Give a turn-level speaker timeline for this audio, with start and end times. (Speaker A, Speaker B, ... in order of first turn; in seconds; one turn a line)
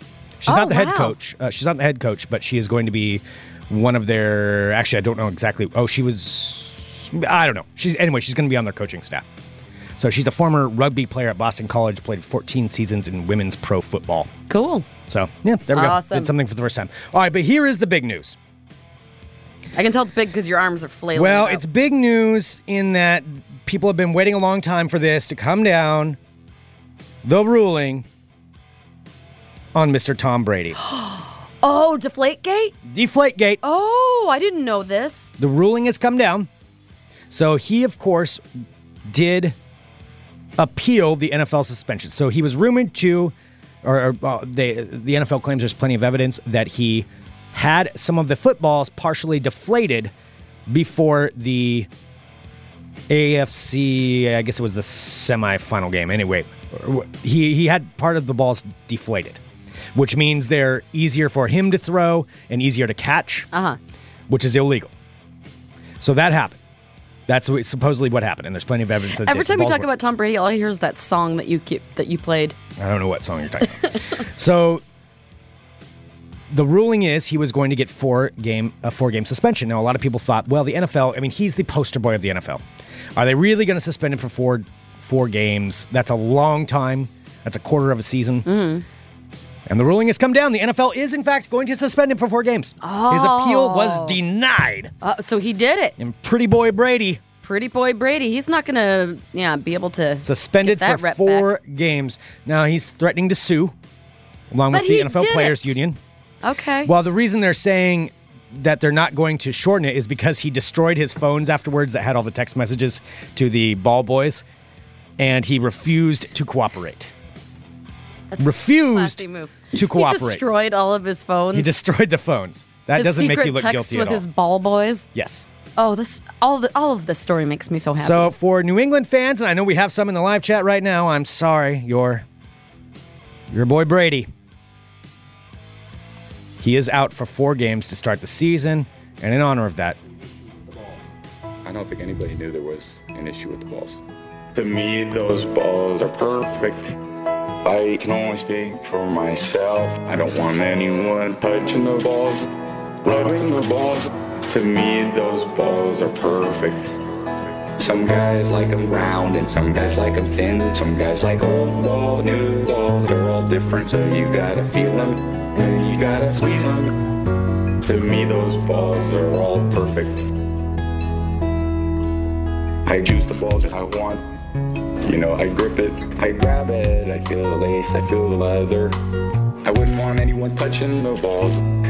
Speaker A: 0.4-9.3
Speaker B: 0.5-1.1
Speaker A: 10.0-14.3
Speaker B: 14.5-14.9
Speaker A: 15.1-18.4
Speaker B: 15.7-16.3
Speaker B: 19.7-21.6
Speaker A: 21.1-26.2
Speaker A: 27.2-28.1
Speaker A: 29.7-30.8
Speaker B: 30.8-32.7
Speaker A: 32.8-33.6
Speaker B: 33.6-35.3
Speaker A: 35.4-36.5
Speaker A: 37.3-38.4
Speaker A: 39.1-39.5
Speaker A: 40.6-50.1
Speaker A: 50.7-51.9
Speaker A: 53.1-59.4
Speaker A: 59.9-63.5
Speaker B: 63.5-63.8
Speaker A: 64.3-64.9
Speaker A: 66.0-66.6
Speaker A: 67.3-69.9
Speaker B: 69.2-72.5
Speaker A: 72.8-74.8
Speaker A: 76.5-82.6
Speaker A: 83.2-88.5
Speaker B: 88.5-88.8
Speaker A: 89.7-94.9
Speaker B: 92.8-94.2
Speaker B: 95.0-96.0
Speaker A: 96.0-97.2
Speaker B: 97.4-101.5
Speaker A: 100.2-103.7
Speaker A: 104.5-106.0
Speaker B: 104.7-105.8
Speaker B: 106.4-106.9
Speaker A: 106.8-114.4
Speaker A: 115.2-117.1
Speaker B: 118.3-121.7
Speaker A: 118.4-120.4
Speaker A: 121.5-124.2
Speaker B: 122.9-125.1
Speaker A: 125.1-125.5
Speaker B: 125.8-128.3
Speaker A: 128.0-132.2
Speaker A: 133.5-134.3
Speaker A: 136.6-140.0
Speaker C: 141.6-144.0
Speaker C: 144.5-147.0
Speaker C: 147.6-152.5
Speaker C: 153.0-157.0
Speaker C: 157.7-166.9
Speaker C: 167.8-170.3
Speaker C: 172.8-174.2
Speaker C: 175.0-178.9
Speaker C: 179.6-181.6